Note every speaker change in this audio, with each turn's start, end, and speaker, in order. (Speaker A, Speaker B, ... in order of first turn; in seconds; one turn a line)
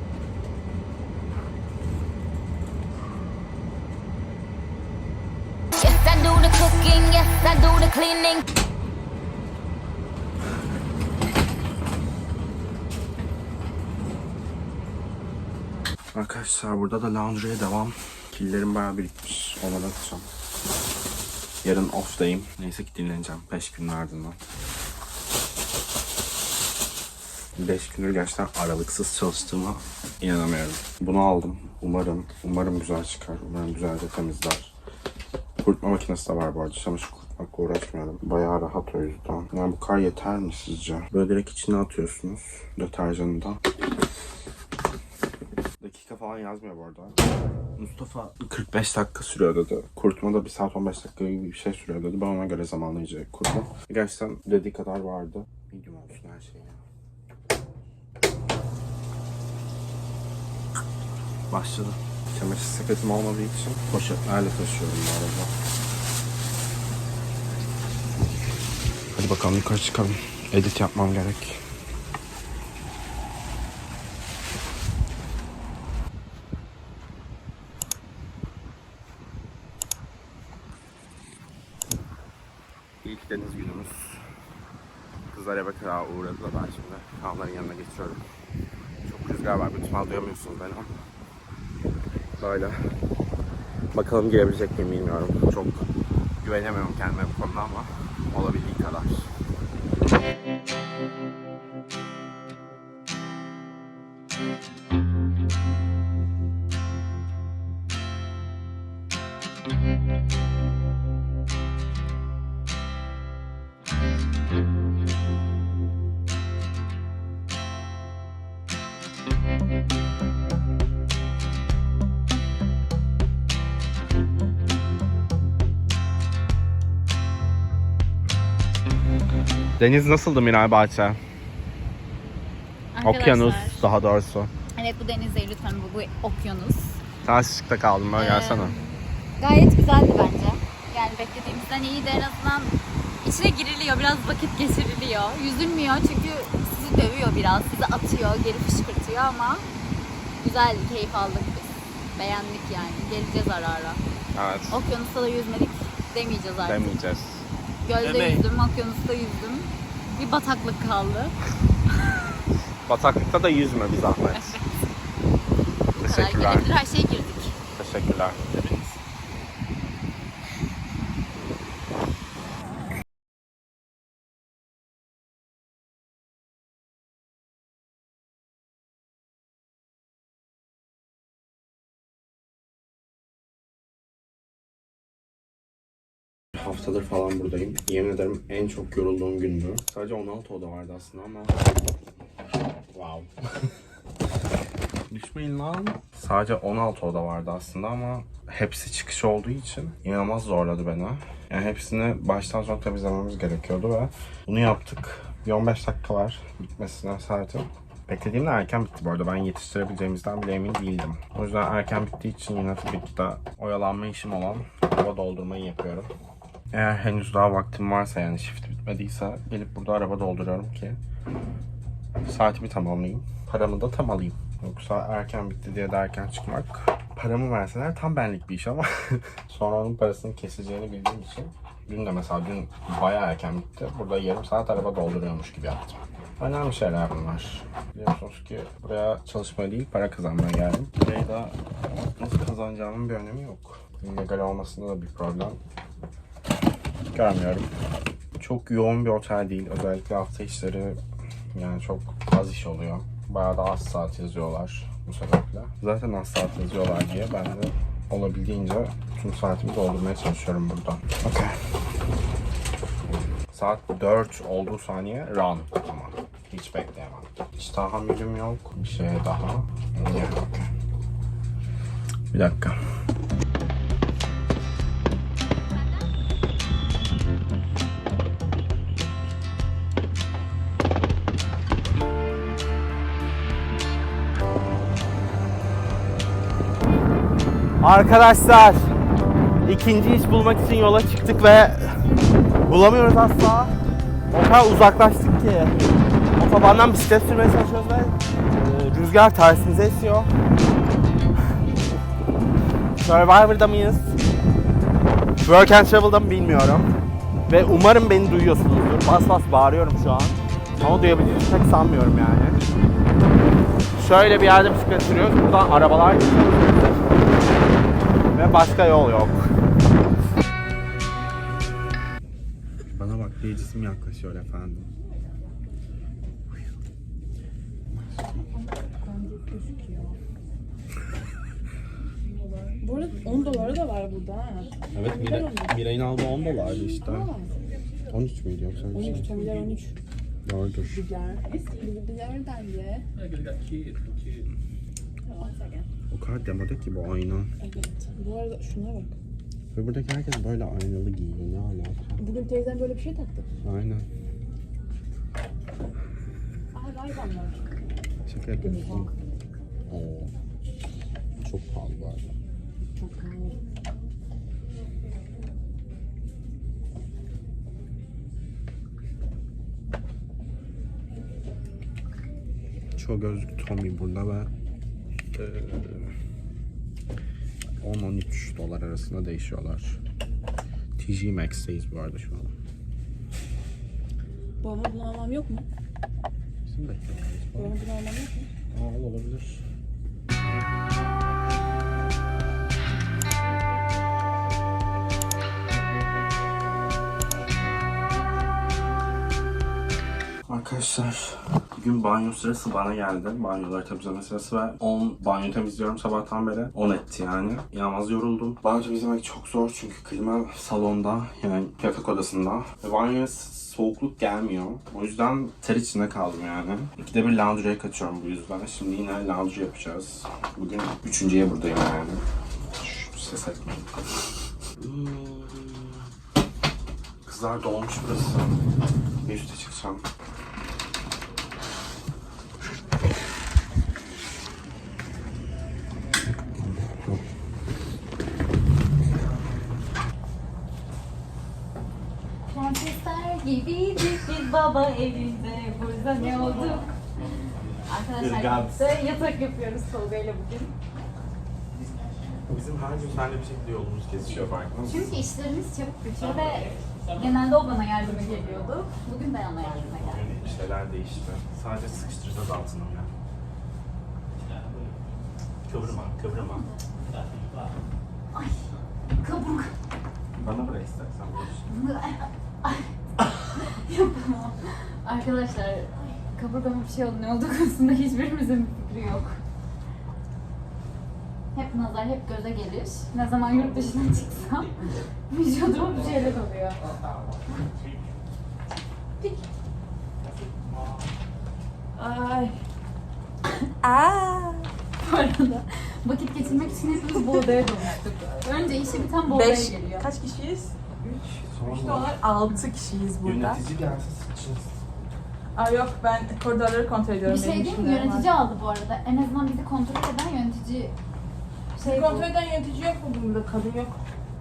Speaker A: 5.8-8.4
Speaker B: 16.1-20.3
Speaker B: 21.6-24.4
Speaker B: 27.6-34.7
Speaker B: 35.6-43.6
Speaker B: 45.8-47.2
Speaker B: 47.8-56.8
Speaker B: 61.5-65.5
Speaker B: 69.1-71.6
Speaker B: 83.0-84.2
Speaker B: 85.3-88.2
Speaker B: 89.0-91.0
Speaker B: 92.4-92.8
Speaker B: 93.9-95.9
Speaker B: 96.4-99.3
Speaker B: 129.8-131.2
Speaker C: 132.9-133.8
Speaker B: 133.0-134.5
Speaker C: 134.8-137.0
Speaker B: 137.2-138.8
Speaker C: 138.2-149.7
Speaker C: 150.4-154.0
Speaker B: 154.3-154.8
Speaker C: 154.7-157.0
Speaker B: 156.6-157.5
Speaker C: 157.8-161.4
Speaker B: 158.0-158.4
Speaker B: 162.8-164.6
Speaker C: 164.3-164.6
Speaker C: 166.0-167.6
Speaker B: 166.0-166.7
Speaker B: 167.8-169.0
Speaker B: 186.6-191.8
Speaker B: 192.9-193.7
Speaker B: 195.1-216.1
Speaker B: 216.7-221.0
Speaker B: 222.2-241.6
Speaker B: 242.2-245.6
Speaker B: 247.1-247.7
Speaker B: 248.4-251.0
Speaker B: 251.5-261.6
Speaker B: 263.5-270.7
Speaker B: 272.3-272.8
Speaker B: 287.8-288.9
Speaker B: 289.6-292.0
Speaker B: 292.6-293.7
Speaker B: 294.3-300.3
Speaker B: 303.0-304.0
Speaker B: 305.4-306.9
Speaker B: 307.5-312.6
Speaker B: 313.9-317.2
Speaker B: 318.3-319.5
Speaker B: 322.9-324.9
Speaker B: 327.9-328.5
Speaker D: 328.5-330.2
Speaker D: 332.8-335.8
Speaker B: 334.9-337.3
Speaker D: 337.0-337.5
Speaker B: 338.1-339.3
Speaker D: 338.9-339.9
Speaker B: 340.4-341.0
Speaker D: 340.9-343.0
Speaker D: 345.3-345.8
Speaker B: 346.1-347.5
Speaker D: 347.6-349.1
Speaker B: 349.7-352.2
Speaker D: 352.2-353.4
Speaker B: 353.6-354.1
Speaker D: 356.7-357.6
Speaker B: 358.2-359.1
Speaker D: 358.6-359.1
Speaker B: 359.9-360.3
Speaker B: 361.4-362.3
Speaker D: 362.9-363.6
Speaker B: 372.9-374.5
Speaker B: 375.3-376.1
Speaker B: 377.8-380.0
Speaker B: 381.0-382.5
Speaker D: 384.6-385.7
Speaker B: 386.6-387.8
Speaker D: 387.6-388.5
Speaker B: 388.7-389.6
Speaker B: 400.5-422.2
Speaker B: 422.8-424.0
Speaker B: 424.8-426.1
Speaker B: 427.2-428.6
Speaker B: 429.2-430.1
Speaker B: 436.6-437.2
Speaker C: 442.5-446.9
Speaker C: 447.9-450.7
Speaker B: 448.2-448.9
Speaker B: 452.5-455.1
Speaker C: 454.9-460.3
Speaker B: 460.1-463.1
Speaker B: 465.7-466.6
Speaker C: 466.4-466.8
Speaker C: 468.3-469.7
Speaker B: 470.4-471.7
Speaker C: 471.6-472.9
Speaker C: 473.5-479.4
Speaker C: 481.5-484.7
Speaker C: 485.3-486.8
Speaker D: 491.9-492.5
Speaker D: 493.8-494.7
Speaker C: 495.0-500.1
Speaker D: 499.3-503.6
Speaker B: 501.4-502.1
Speaker B: 503.2-504.8
Speaker D: 505.5-508.3
Speaker C: 507.2-510.9
Speaker C: 511.8-512.3
Speaker D: 511.8-514.0